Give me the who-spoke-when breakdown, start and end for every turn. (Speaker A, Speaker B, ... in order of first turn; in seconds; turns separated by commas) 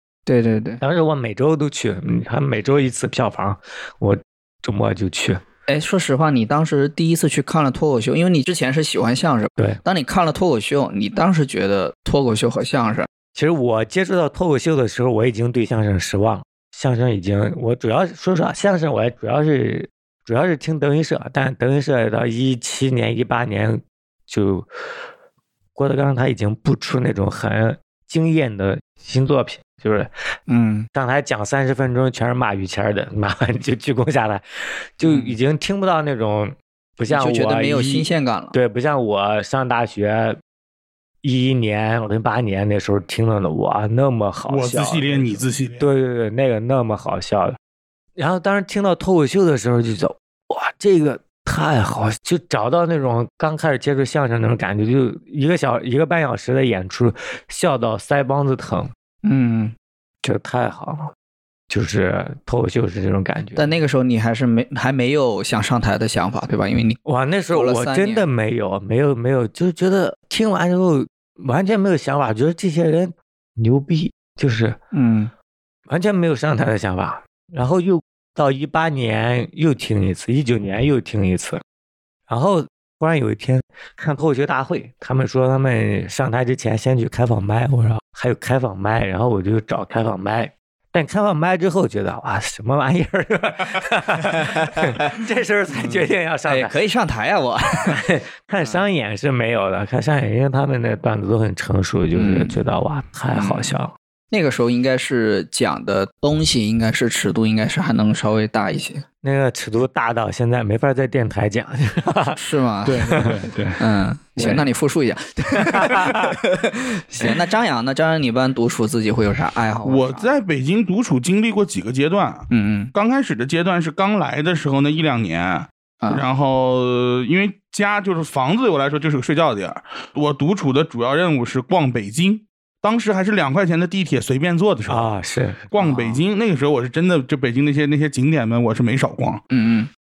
Speaker A: 0.3-0.8, Speaker B: 0.8-5.4, Speaker A: 5.7-13.1, Speaker B: 13.3-24.7, Speaker B: 25.7-30.1, Speaker A: 30.5-30.9, Speaker B: 30.9-34.4, Speaker B: 35.0-40.4, Speaker A: 35.0-35.4, Speaker A: 37.1-38.5, Speaker B: 41.2-47.6, Speaker C: 44.5-45.9, Speaker B: 48.2-58.9, Speaker A: 59.2-59.7, Speaker B: 60.2-61.1, Speaker B: 61.7-63.7, Speaker A: 63.5-67.0, Speaker B: 67.0-74.8, Speaker A: 67.5-68.3, Speaker A: 74.9-75.3, Speaker B: 75.9-81.6, Speaker B: 82.3-96.7, Speaker A: 94.4-94.9, Speaker A: 96.4-98.0, Speaker B: 97.9-103.9, Speaker A: 102.1-102.6, Speaker A: 103.3-103.7, Speaker A: 104.3-109.0, Speaker B: 109.2-112.4, Speaker A: 112.3-120.3, Speaker C: 112.9-113.8, Speaker B: 115.7-116.4, Speaker C: 119.8-135.1, Speaker A: 122.5-122.9, Speaker B: 134.9-135.7, Speaker C: 135.7-139.4, Speaker A: 135.8-136.2, Speaker A: 139.5-139.9